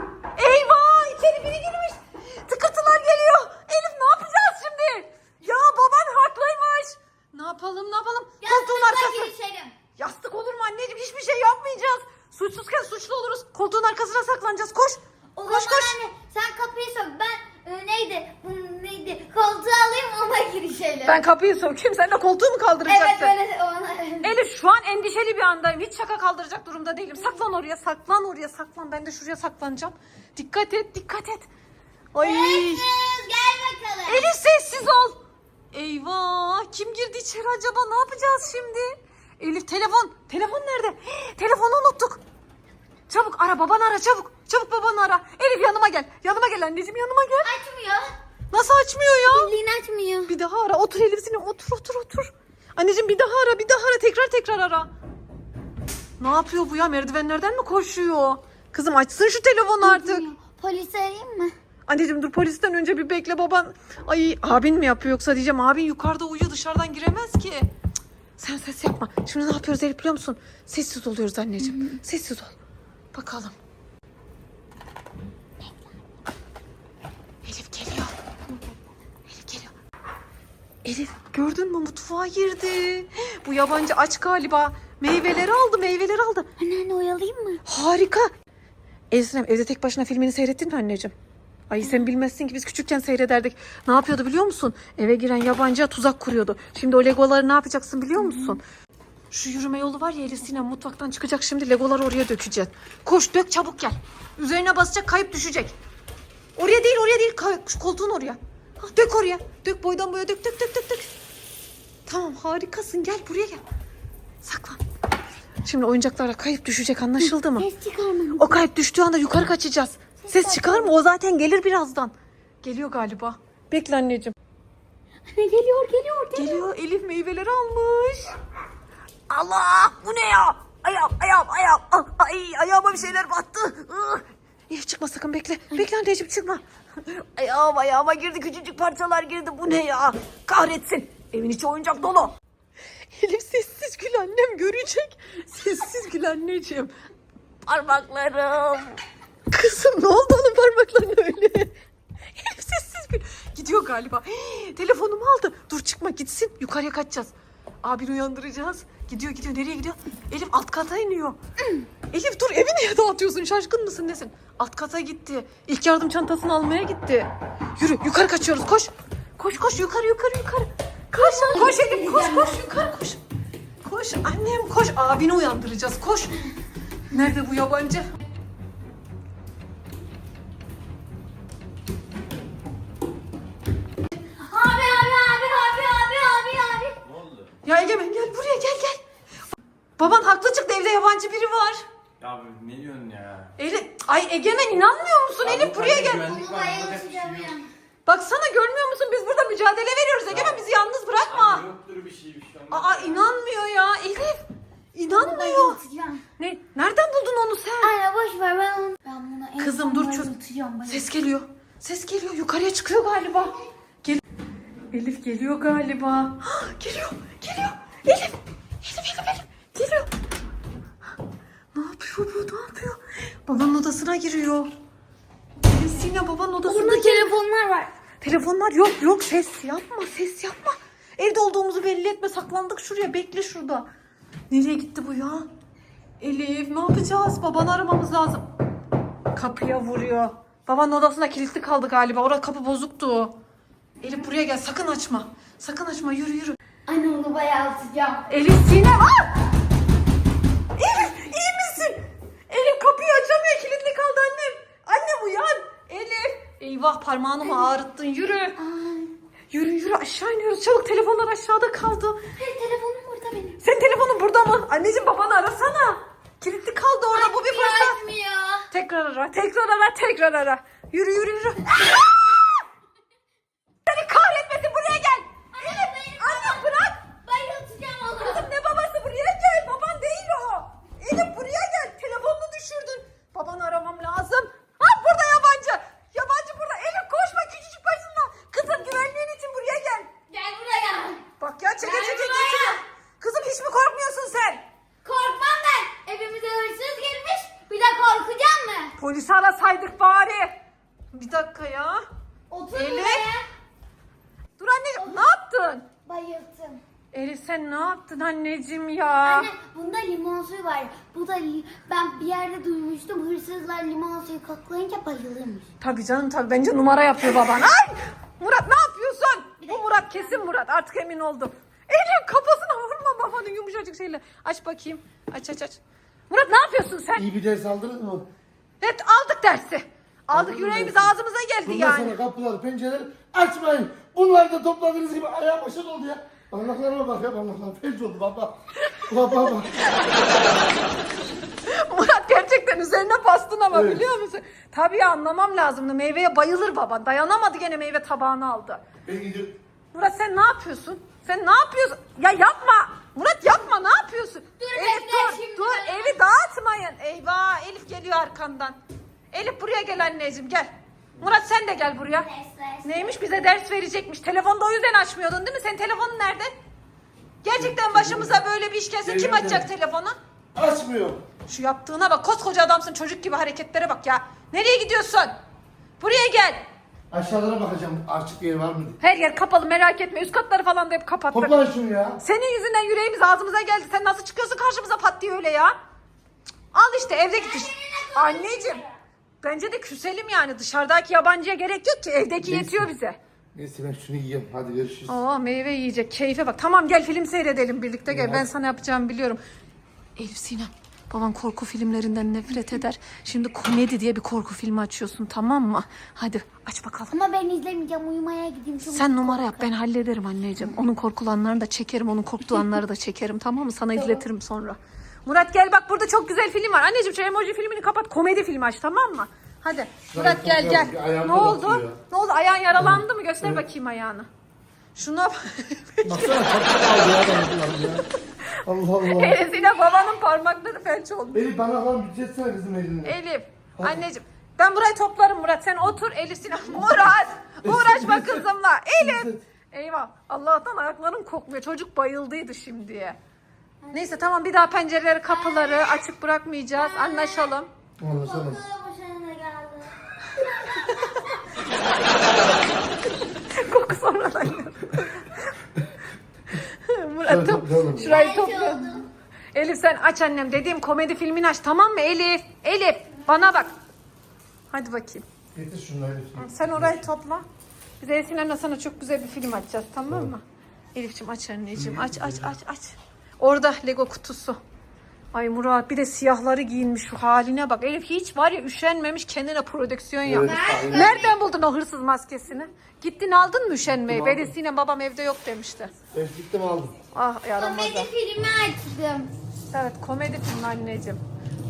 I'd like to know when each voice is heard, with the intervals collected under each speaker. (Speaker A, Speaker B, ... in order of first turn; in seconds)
Speaker A: 0.4-9.3, 10.0-16.0, 21.1-23.4, 24.2-31.5, 32.1-32.9, 34.1-35.2, 35.7-42.2, 43.1-47.5, 48.5-49.5, 50.3-54.9, 56.2-60.2, 61.9-67.7, 68.4-72.5, 73.1-73.5, 77.4-78.1, 79.3-79.7, 80.8-86.5, 87.7-88.3, 89.1-91.1, 91.7-98.6, 99.3-105.8, 106.6-111.1, 112.1-113.6, 114.4-114.8, 115.6-117.7, 118.4-124.3, 126.3-128.4, 129.3-142.3, 143.1-146.9, 147.7-149.0, 149.5-151.7, 152.4-157.3, 157.8-161.4, 162.1-173.2, 173.8-176.3, 177.1-178.1, 187.6-189.0, 190.0-191.8, 193.6-196.4, 198.1-201.7, 202.7-204.4, 204.9-205.8, 206.4-207.9, 209.6-210.3, 210.9-214.2, 214.9-220.1, 221.7-224.7, 225.7-227.3, 228.2-233.9, 234.5-235.5, 236.2-238.5, 239.3-243.4, 244.0-246.6, 248.3-249.3, 250.8-258.6, 259.5-262.2, 263.6-268.0, 268.7-271.9, 273.9-277.0, 278.2-290.1, 291.4-294.6, 299.0-300.5, 301.1-302.0, 302.7-303.3, 304.6-305.9, 307.1-309.5, 315.8-327.2, 328.8-332.2, 339.9-340.3, 341.6-348.8, 349.9-358.8, 359.3-362.3, 362.8-366.5, 367.4-370.2, 371.5-375.3, 376.0-376.7, 379.0-381.6, 382.2-385.8, 386.7-388.8, 389.4-393.2, 395.1-399.4, 400.2-407.1, 408.9-424.3, 424.9-426.6, 429.1-431.4, 433.1-443.2, 443.9-447.7, 450.4-451.2, 453.3-455.4, 456.5-459.0, 459.5-463.7, 464.7-465.2, 466.4-467.4, 468.0-474.6, 475.3-485.9, 487.1-488.1, 489.7-491.2
Speaker B: 8.4-9.7, 15.4-21.2, 22.9-24.4, 32.2-34.3, 47.4-48.1, 49.2-50.3, 59.8-61.5, 71.6-72.0, 86.6-87.6, 98.2-98.6, 117.2-118.7, 120.2-120.9, 125.3-126.7, 171.1-172.9, 184.4-187.0, 196.1-197.7, 205.1-206.2, 207.8-211.1, 226.7-227.9, 246.9-248.3, 257.4-257.7, 258.6-259.1, 262.4-263.6, 267.1-268.7, 275.5-278.5, 290.3-291.2, 291.8-292.8, 295.0-298.9, 302.5-303.5, 306.1-306.8, 309.2-315.7, 319.6-320.5, 354.6-356.2, 362.1-363.6, 387.3-388.9, 407.1-409.7, 413.9-414.2, 443.8-444.4, 445.3-446.0, 446.8-447.5, 448.2-451.4, 458.1-459.1, 480.4-481.4, 487.6-489.3
Speaker C: 187.0-187.5, 192.2-193.5, 195.4-197.6, 200.3-200.6, 201.3-203.3
Speaker D: 327.2-328.3, 330.3-331.1, 331.6-339.8, 343.7-344.0, 349.1-349.6, 367.6-368.4, 369.0-369.7, 370.6-371.2, 377.1-379.0, 381.3-382.2, 392.4-392.9, 393.6-395.2, 398.1-398.5, 420.1-422.0, 422.8-423.6, 426.1-428.1, 428.6-429.4, 431.3-433.2, 437.6-438.4, 439.0-439.4, 448.0-448.6, 457.3-458.2, 465.6-467.1, 470.1-470.3, 471.7-472.5, 480.2-481.1, 483.9-484.5, 486.1-486.9